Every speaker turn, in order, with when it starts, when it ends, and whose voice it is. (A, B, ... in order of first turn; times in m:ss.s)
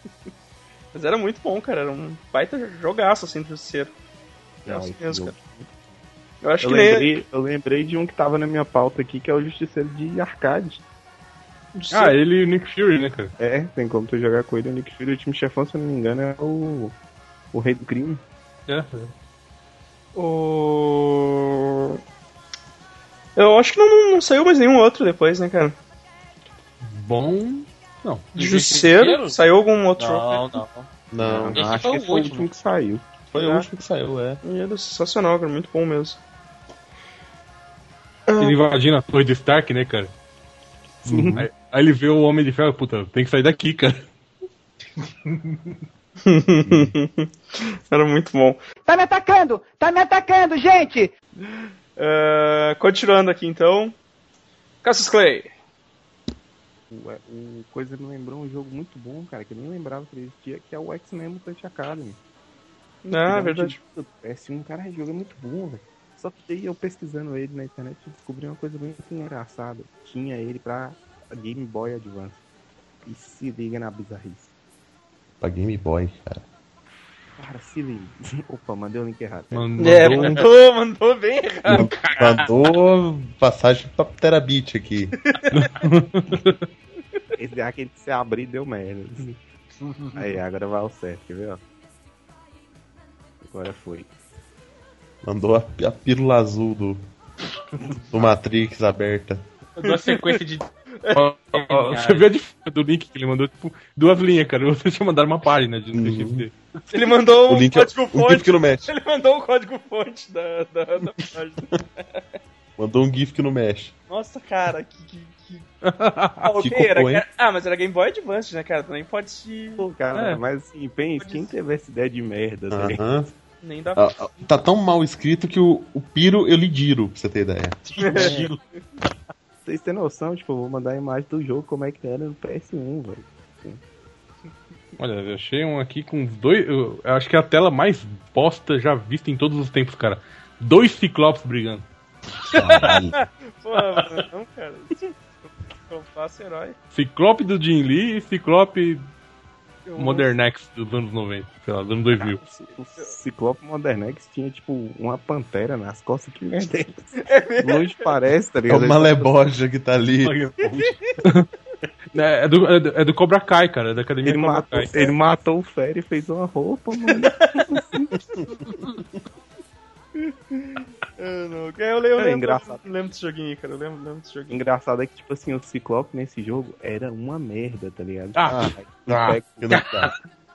0:00.9-0:03.9 A
0:04.6-0:05.4 A
0:04.6-0:05.8 B
0:06.4-0:07.2 A
0:06.6-0:10.8 B
0:11.8-0:12.2 A
0:11.9-0:13.3 C
0:13.4-0:16.9 B
0:17.5-0:18.2 B
0:18.7-0:19.1 C
0:20.2-0:22.0 A
0:23.4-0:25.8 A
0:26.8-0:28.3 C
0:28.4-0:30.6 A
0:28.4-0:29.4 D
0:30.0-0:30.9 D
0:31.1-0:31.6 E
0:31.2-0:33.1 B
0:31.5-0:32.5 D
0:33.3-0:34.4 E
0:33.4-0:33.7 A
0:34.4-0:36.2 A
0:38.3-0:38.6 A
0:38.4-0:40.1 C
0:41.0-0:41.4 B
0:41.1-0:41.5 E
0:41.4-0:44.1 C
0:46.2-0:48.6 A
0:48.9-0:51.1 F
0:51.4-0:54.0 A
0:54.8-0:55.5 A
0:56.9-1:02.2 B
1:03.0-1:03.8 A
1:03.3-1:12.4 B
1:13.0-1:14.5 B
1:15.4-1:16.4 E
1:17.4-1:20.3 B
1:19.5-1:20.4 C
1:19.8-1:21.9 A
1:21.7-1:25.2 E
1:21.7-1:22.5 D
1:25.2-1:25.7 A
1:25.5-1:26.7 C
1:27.4-1:29.4 B
1:29.8-1:30.2 D
1:30.2-1:31.6 B
1:33.4-1:34.1 B
1:35.2-1:37.0 E
1:38.1-1:39.4 E
1:39.8-1:40.7 D
1:39.8-1:40.1 A
1:41.1-1:46.5 C
1:41.5-1:42.3 D
1:46.0-1:46.5 E
1:46.9-1:51.6 A
1:47.5-1:48.9 E
1:52.8-1:53.9 E
1:54.1-1:55.7 A
1:55.8-1:56.5 C
1:56.4-1:59.8 A
1:56.6-1:57.2 E
1:59.8-2:03.0 B
2:00.1-2:00.4 C
2:01.2-2:01.5 A
2:02.7-2:03.3 E
2:03.6-2:04.2 A
2:04.0-2:07.8 E
2:07.9-2:08.6 D
2:08.0-2:08.4 A
2:08.2-2:08.5 B
2:09.6-2:13.8 B
2:15.0-2:21.9 C
2:22.5-2:23.2 E
2:22.5-2:25.1 A
2:25.9-2:26.8 A
2:26.9-2:29.0 C
2:29.9-2:30.3 A
2:30.0-2:32.4 C
2:32.2-2:39.3 B
2:37.2-2:38.1 A
2:38.7-2:40.8 E
2:42.1-2:44.9 C
2:44.2-2:48.1 B
2:47.1-2:47.8 A
2:50.2-2:54.6 A
2:52.2-2:52.8 B
2:54.5-2:59.8 B
2:58.4-2:59.3 C
2:58.5-3:00.1 E
2:59.7-3:00.1 D